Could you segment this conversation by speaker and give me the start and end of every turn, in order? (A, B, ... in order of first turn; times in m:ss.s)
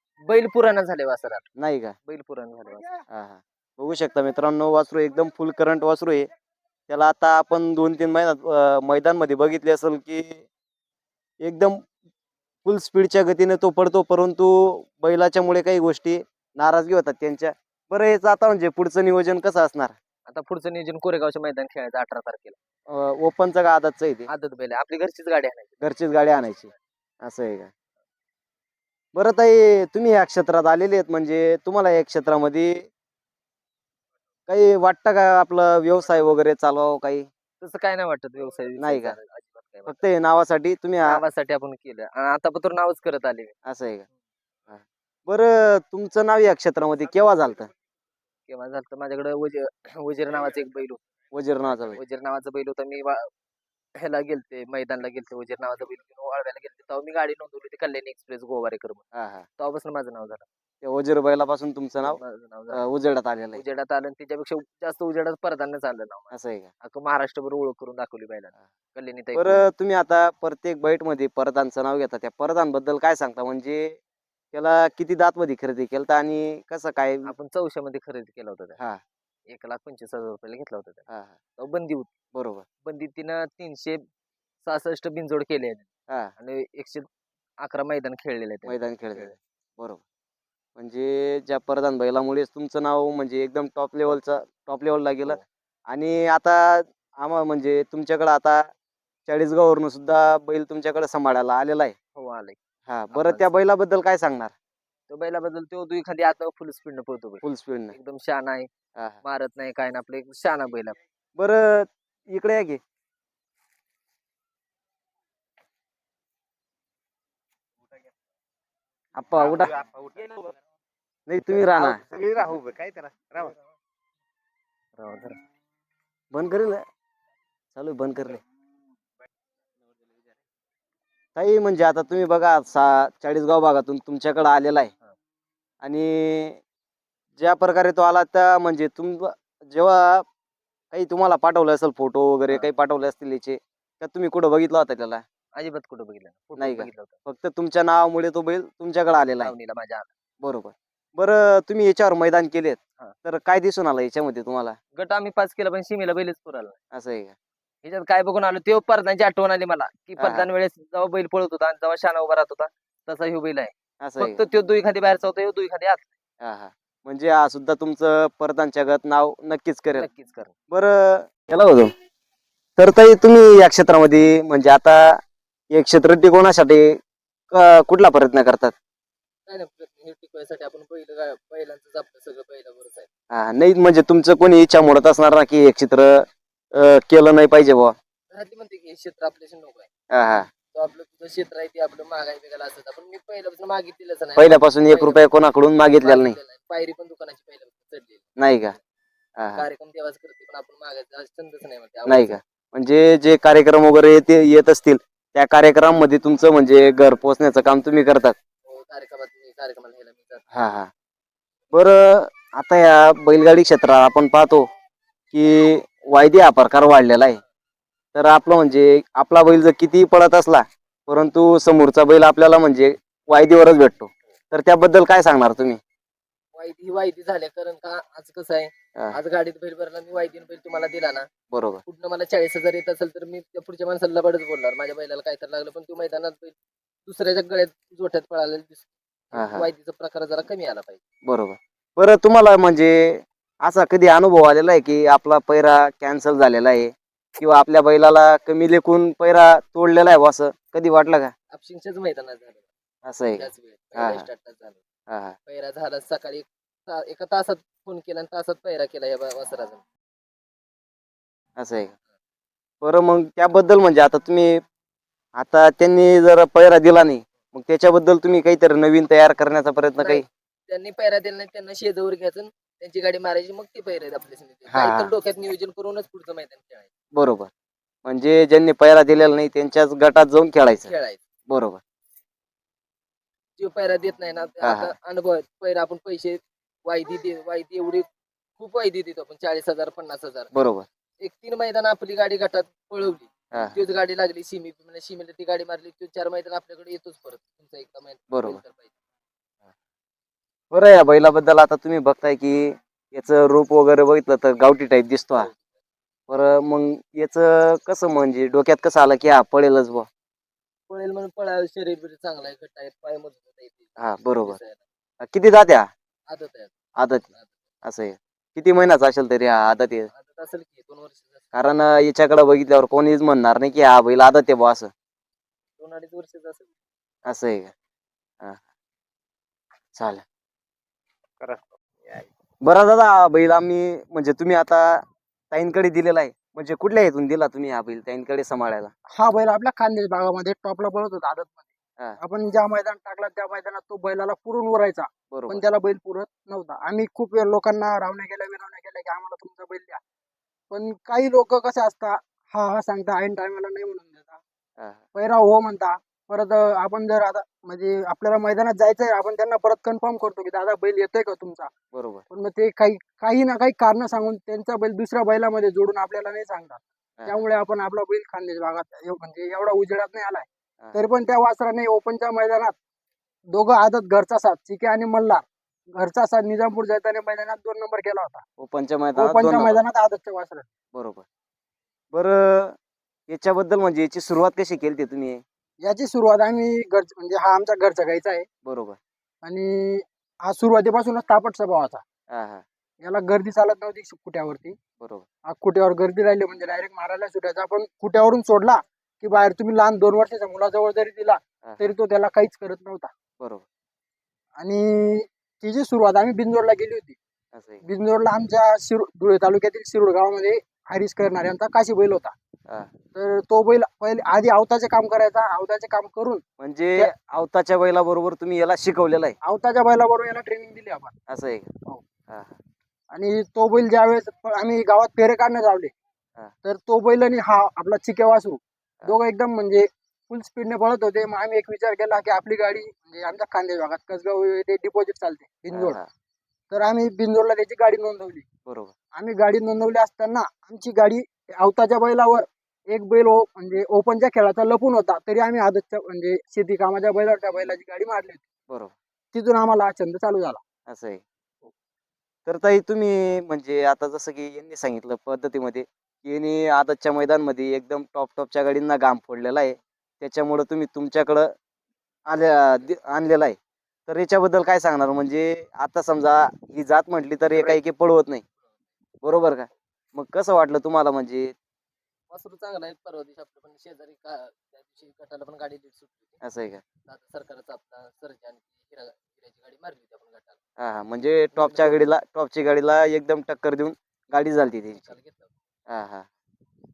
0:00.2-0:01.4 A
0:01.6-0:01.9 B
0:02.1-0:03.0 A
0:03.1-0:06.2 B
0:06.9-0:10.4 B
0:11.4-0:11.8 B
0:12.6-0:19.9 B
0:20.3-0:22.6 A
0:22.9-0:24.3 B
0:24.3-0:26.8 A
0:25.8-0:26.7 B
0:27.2-0:27.7 B
0:29.1-0:32.9 B
0:34.5-0:37.3 B
0:37.6-0:40.0 A
0:38.8-0:39.2 B
0:39.8-0:41.2 B
0:41.0-0:43.5 A
0:43.7-0:44.0 B
0:44.7-0:47.7 B
0:48.5-0:51.0 A
0:51.3-0:52.0 B
0:51.7-0:53.3 A
0:54.0-0:59.0 A
0:59.1-0:59.4 B
0:59.6-1:00.4 A
1:00.8-1:02.2 B
1:02.0-1:02.8 A
1:02.7-1:03.6 B
1:03.5-1:06.3 A
1:06.3-1:06.7 B
1:06.8-1:09.6 A
1:09.3-1:14.0 B
1:14.5-1:17.3 B
1:17.2-1:18.8 A
1:19.5-1:21.0 A
1:21.1-1:21.3 B
1:21.6-1:22.1 A
1:22.3-1:22.6 B
1:22.8-1:24.0 A
1:24.6-1:25.8 A
1:26.4-1:27.1 A
1:27.6-1:29.3 A
1:28.6-1:30.0 B
1:30.8-1:38.7 B
1:39.3-1:41.9 B
1:42.2-1:42.6 A
1:42.9-1:44.5 B
1:43.1-1:43.5 A
1:45.1-1:48.7 A
1:47.4-1:47.9 B
1:49.2-1:51.0 A
1:51.4-1:52.8 B
1:59.2-1:59.8 B
2:00.0-2:00.5 C
2:01.3-2:02.0 B
2:02.0-2:03.5 C
2:05.0-2:05.4 A
2:06.3-2:06.8 B
2:07.7-2:08.4 B
2:11.4-2:14.9 B
2:15.8-2:16.6 B
2:17.4-2:20.2 B
2:20.9-2:25.2 B
2:25.5-2:27.2 A
2:26.6-2:29.5 B
2:29.4-2:30.1 A
2:30.4-2:34.8 B
2:34.9-2:36.8 A
2:36.9-2:37.3 B
2:37.8-2:46.1 A
2:40.2-2:40.5 B
2:44.0-2:44.4 B
2:46.4-2:50.1 B
2:49.9-2:50.5 A
2:50.7-2:51.9 B
2:52.8-2:55.2 B
2:55.7-2:57.0 B
2:57.5-2:58.7 B
2:59.5-3:03.1 A
3:03.3-3:07.9 B
3:08.3-3:09.9 A
3:10.1-3:10.5 B
3:10.7-3:15.3 A
3:14.4-3:16.4 B
3:16.0-3:18.3 A
3:18.4-3:18.7 B
3:19.4-3:19.7 B
3:19.5-3:22.4 A
3:22.0-3:28.4 B
3:28.6-3:30.4 A
3:30.5-3:30.9 B
3:31.7-3:34.6 B
3:35.3-3:37.4 B
3:38.1-3:45.8 B
3:46.5-3:51.3 A
3:51.5-3:51.8 B
3:51.8-3:56.5 A
3:57.0-4:01.0 A
3:59.3-3:59.7 B
4:01.3-4:11.3 B
4:11.5-4:12.7 A
4:13.0-4:14.3 B
4:13.3-4:14.8 A
4:15.1-4:15.4 B
4:15.5-4:19.8 A
4:21.6-4:21.9 B
4:22.8-4:24.6 B
4:25.4-4:30.2 B
4:30.0-4:36.9 A
4:34.7-4:35.1 B
4:37.1-4:37.5 B
4:38.0-4:40.9 B
4:40.8-4:41.2 A
4:41.5-4:41.8 B
4:43.6-4:48.0 A
4:44.6-4:44.9 B
4:48.6-4:50.5 A
4:50.5-4:50.8 B
4:51.2-4:58.9 A
4:53.5-4:53.8 B
4:58.3-4:58.6 B
5:00.7-5:05.5 B
5:06.3-5:10.1 B
5:10.9-5:14.8 A
5:14.0-5:14.6 B
5:15.2-5:15.9 B
5:16.3-5:16.7 A
5:17.0-5:17.3 B
5:17.8-5:20.1 B
5:20.1-5:21.5 A
5:21.5-5:24.9 B
5:25.8-5:26.7 A
5:27.3-5:27.7 B
5:30.0-5:30.2 B
5:32.6-5:35.0 B
5:35.5-5:38.9 B
5:39.1-5:41.6 D
5:42.2-5:50.0 D
5:45.3-5:45.6 B
5:50.7-5:54.4 D
5:55.1-6:01.7 D
6:01.9-6:02.2 B
6:02.3-6:12.8 D
6:13.5-6:15.4 D
6:16.0-6:18.4 D
6:18.6-6:19.8 B
6:19.2-6:20.6 D
6:20.9-6:21.2 B
6:22.1-6:22.8 B
6:23.3-6:25.4 B
6:25.8-6:28.4 D
6:28.6-6:29.0 B
6:29.4-6:32.0 D
6:32.3-6:32.6 B
6:33.0-6:34.7 D
6:35.0-6:35.2 B
6:35.5-6:43.1 D
6:41.6-6:41.9 B
6:44.6-6:47.2 D
6:47.5-6:47.8 B
6:47.8-6:52.3 D
6:53.1-6:56.4 D
6:56.6-6:59.4 B
6:59.4-7:01.1 D
7:01.3-7:01.7 B
7:02.3-7:02.6 B
7:03.1-7:05.9 D
7:06.6-7:16.0 D
7:15.7-7:16.0 B
7:16.7-7:18.4 D
7:18.6-7:18.9 B
7:19.2-7:28.4 D
7:29.3-7:30.6 D
7:30.9-7:31.2 B
7:32.4-7:41.5 B
7:42.3-7:43.6 B
7:44.1-7:48.4 B
7:47.5-7:47.8 A
7:49.2-7:51.5 B
7:52.3-7:56.4 A
7:56.4-7:56.8 B
7:57.1-8:00.6 A
8:00.8-8:05.1 B
8:01.5-8:02.1 A
8:04.8-8:05.5 A
8:05.9-8:06.2 B